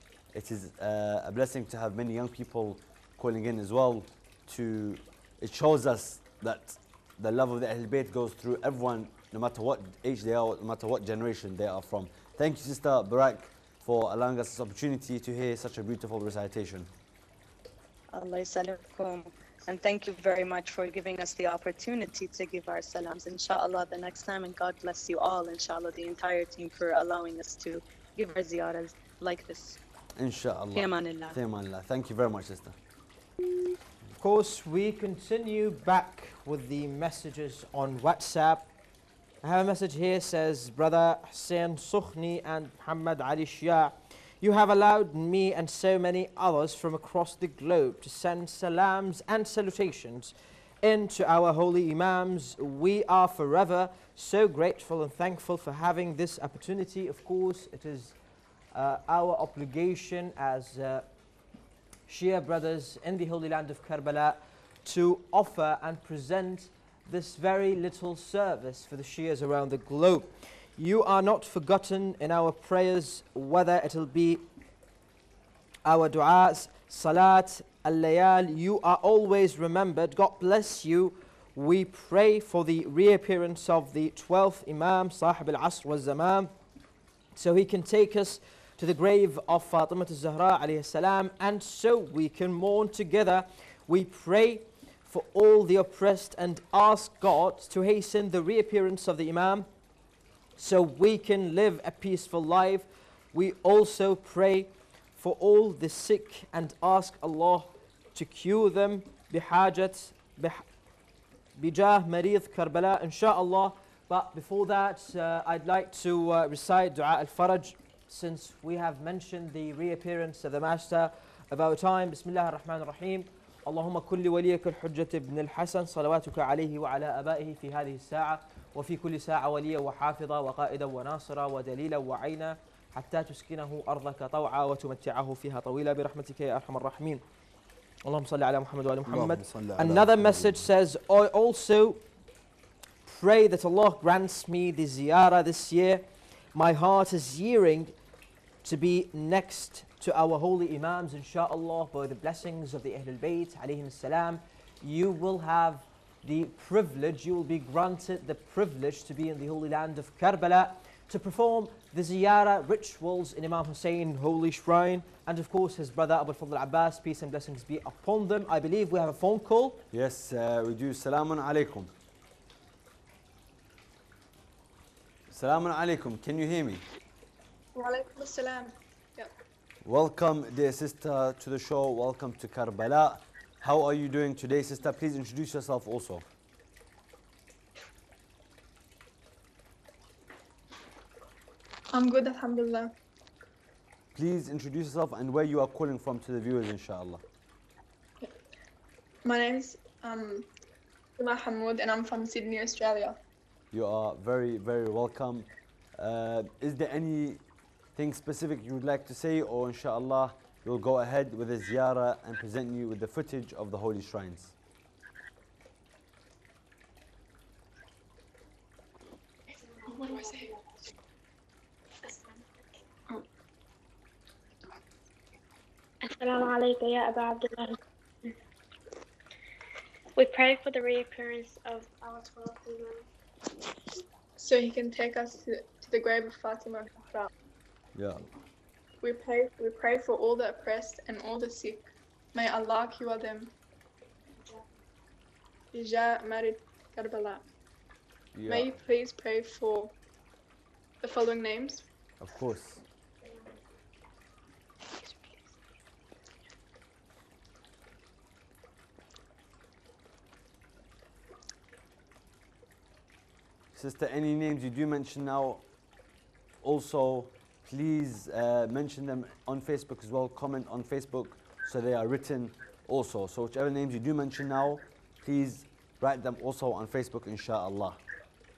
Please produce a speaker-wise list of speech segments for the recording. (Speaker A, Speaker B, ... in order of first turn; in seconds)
Speaker A: 0.3-16.9, 30.1-32.8, 139.1-140.7, 169.9-171.9, 175.3-176.8, 179.8-186.2, 194.1-197.2, 203.7-207.4, 207.9-214.5, 237.9-238.2, 248.3-248.8, 252.2-252.8, 263.7-265.6, 266.6-278.0
Speaker B: 18.1-29.8, 30.7-31.4
Speaker C: 34.2-38.7, 39.4-58.1, 58.7-61.1, 62.1-74.4, 75.8-86.5, 87.3-99.7, 100.6-110.6, 111.5-137.2, 138.0-142.0, 143.1-147.9, 148.6-169.8
Speaker D: 177.7-179.3, 191.9-192.9, 199.2-200.5, 201.2-203.2, 219.9-220.5, 234.4-237.3, 239.0-243.5, 245.7-247.4, 248.4-249.9, 251.0-251.8
Speaker E: 226.2-227.7, 230.2-233.0